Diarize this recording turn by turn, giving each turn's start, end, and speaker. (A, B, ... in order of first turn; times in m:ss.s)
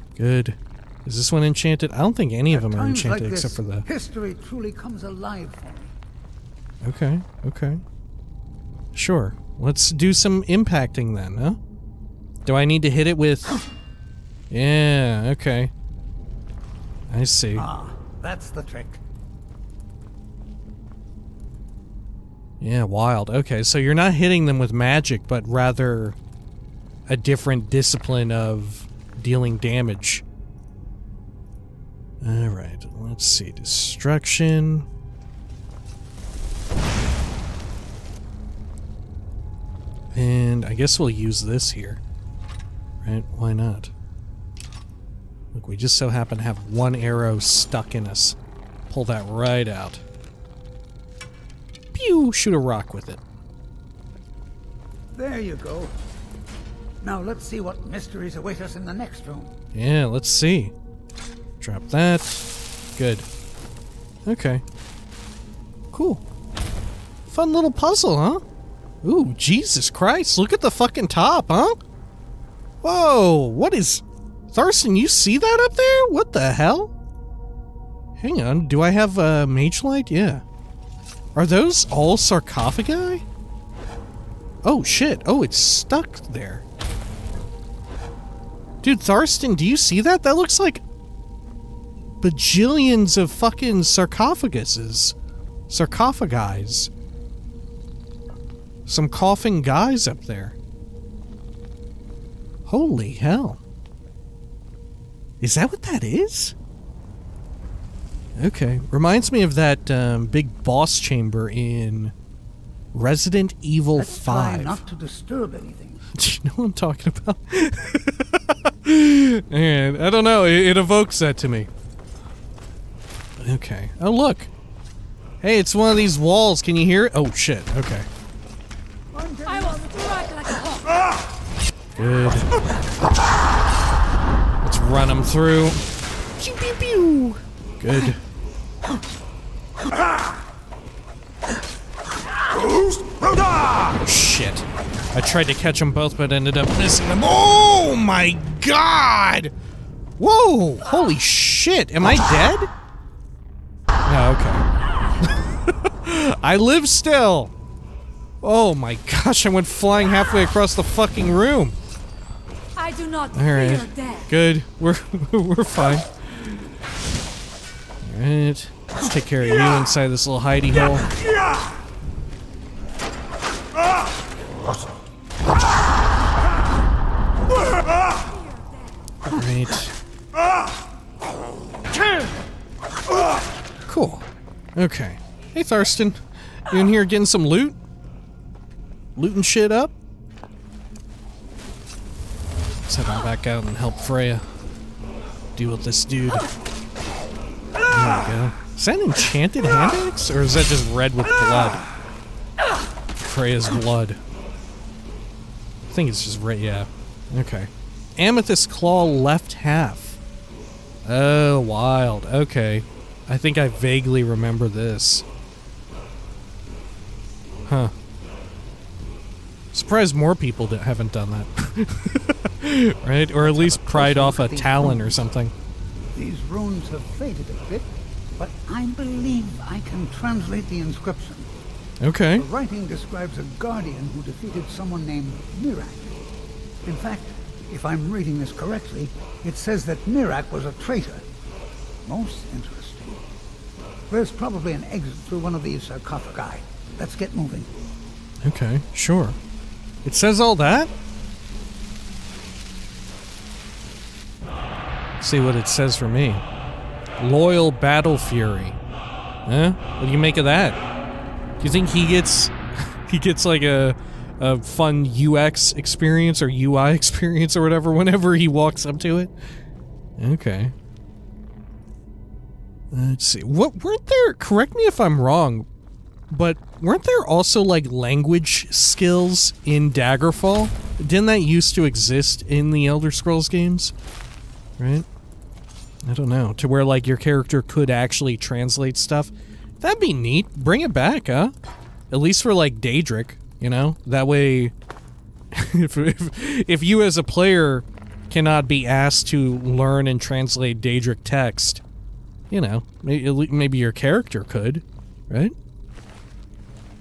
0:00.2-0:03.8 A
0:02.5-0:05.9 B
0:06.8-0:07.8 A
0:08.9-0:11.6 A
0:12.4-0:13.6 A
0:14.5-0:15.7 A
0:17.1-0:17.7 A
0:17.5-0:19.0 B
0:22.6-0:26.2 A
0:27.1-0:30.2 A
0:32.2-0:34.9 A
0:40.1-0:42.0 A
0:43.0-0:43.9 A
0:45.5-0:48.4 A
0:48.9-0:50.0 A
0:51.9-0:53.2 A
0:55.1-0:55.9 B
0:57.0-0:59.6 B
0:59.7-1:00.7 A
1:01.6-1:02.4 A
1:03.0-1:03.2 A
1:04.2-1:04.6 A
1:05.9-1:06.2 A
1:07.3-1:08.4 A
1:09.0-1:11.8 A
1:12.8-1:16.9 A
1:18.2-1:20.4 A
1:21.3-1:23.2 A
1:24.6-1:26.6 A
1:28.8-1:30.8 A
1:32.2-1:35.1 A
1:35.7-1:36.9 A
1:38.8-1:40.6 A
1:42.6-1:43.6 A
1:45.4-1:46.5 A
1:48.4-1:52.1 A
1:52.9-1:54.8 A
1:53.9-1:56.1 B
1:56.1-2:01.7 A
2:03.4-2:04.5 A
2:05.4-2:08.1 A
2:09.1-2:10.3 B
2:09.5-2:11.0 C
2:12.0-2:12.6 A
2:14.6-2:15.8 A
2:16.4-2:18.2 A
2:24.0-2:29.5 A
2:30.2-2:32.7 A
2:34.0-2:34.6 A
2:35.2-2:37.5 A
2:38.4-2:41.8 A
2:42.7-2:44.3 C
2:43.3-2:46.7 A
2:48.0-2:51.1 A
2:58.3-2:58.7 C
2:59.2-2:59.9 A
3:03.9-3:04.2 A
3:04.8-3:07.8 A
3:09.2-3:09.9 A
3:12.8-3:14.4 A
3:15.5-3:16.5 A
3:17.8-3:21.8 A
3:23.2-3:24.2 A
3:25.9-3:30.2 A
3:31.0-3:35.2 A
3:37.6-3:37.9 A
3:39.7-3:45.5 A
3:43.4-3:45.2 B
3:46.1-3:51.5 B
3:52.0-3:52.4 A
3:52.3-3:56.1 B
3:56.8-4:01.2 B
4:02.0-4:03.2 B
4:04.1-4:07.7 B
4:08.4-4:09.4 A
4:10.0-4:10.9 A
4:15.2-4:16.4 A
4:17.2-4:18.8 A
4:19.4-4:20.8 A
4:21.6-4:29.3 A
4:30.2-4:30.7 A
4:32.9-4:35.7 A
4:36.3-4:43.9 A
4:44.8-4:45.0 A
4:46.0-4:51.5 A
4:52.1-4:54.7 A
4:55.5-5:01.8 A
5:02.5-5:05.5 A